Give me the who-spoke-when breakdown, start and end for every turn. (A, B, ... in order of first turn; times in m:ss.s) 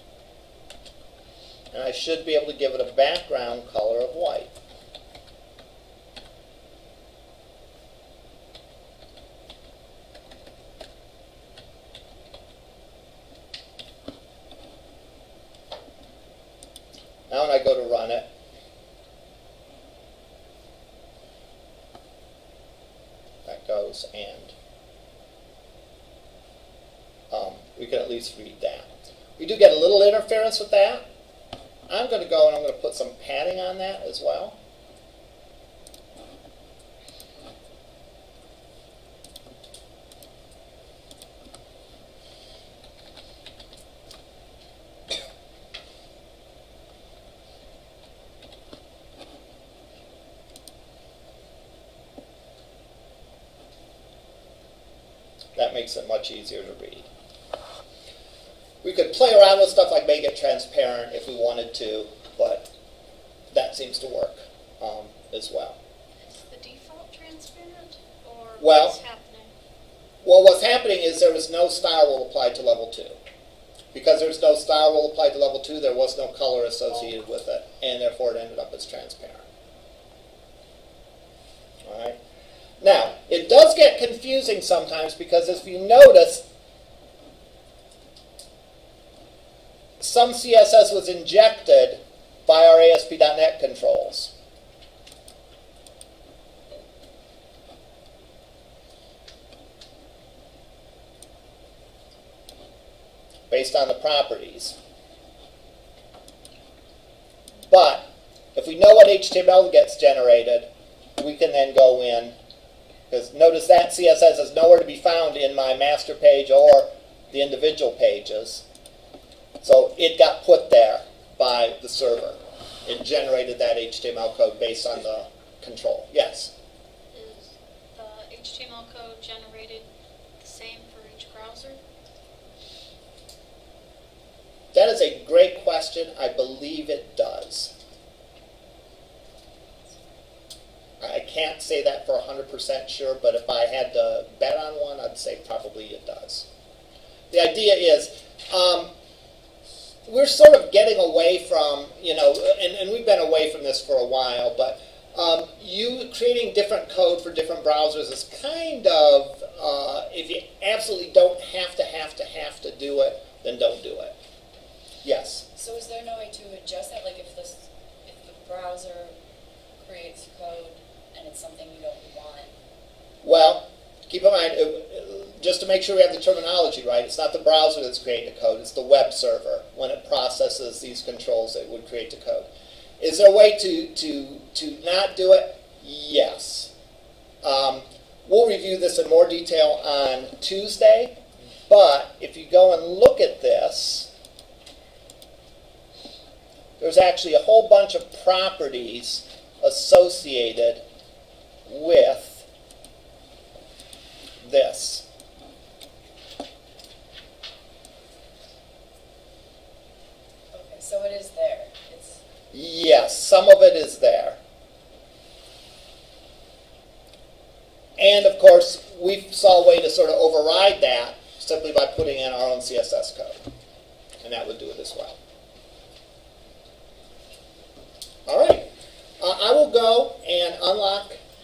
0:01.7-0:04.6 A
0:17.3-0:18.3 A
0:23.4-0:24.5 A
0:27.3-0:31.0 A
0:31.9-0:34.6 A
0:55.5-0:57.1 A
0:58.8-1:02.7 A
1:03.5-1:05.8 A
1:06.3-1:09.5 B
1:08.6-1:09.0 A
1:10.2-1:13.2 A
1:13.9-1:19.5 A
1:21.8-1:22.2 A
1:22.8-1:26.4 A
1:30.0-1:34.3 A
1:43.5-1:44.8 A
1:47.7-1:52.4 A
1:53.1-1:58.6 A
1:59.6-2:06.5 A
2:07.1-2:09.8 B
2:10.4-2:11.8 B
2:14.7-2:17.7 A
2:21.0-2:26.4 A
2:27.3-2:28.9 A
2:30.0-2:44.2 A
2:45.0-2:45.5 A
2:45.6-2:49.1 C
2:49.8-2:52.5 C
2:53.2-3:02.5 A
3:03.0-3:06.7 A
3:07.4-3:14.1 A
3:16.8-3:20.8 A
3:21.7-3:22.5 A
3:24.4-3:25.0 A
3:30.5-3:32.2 C
3:32.5-3:34.4 A
3:38.0-3:43.4 A
3:44.2-3:45.2 A
3:48.3-3:48.7 A
3:49.2-3:51.2 A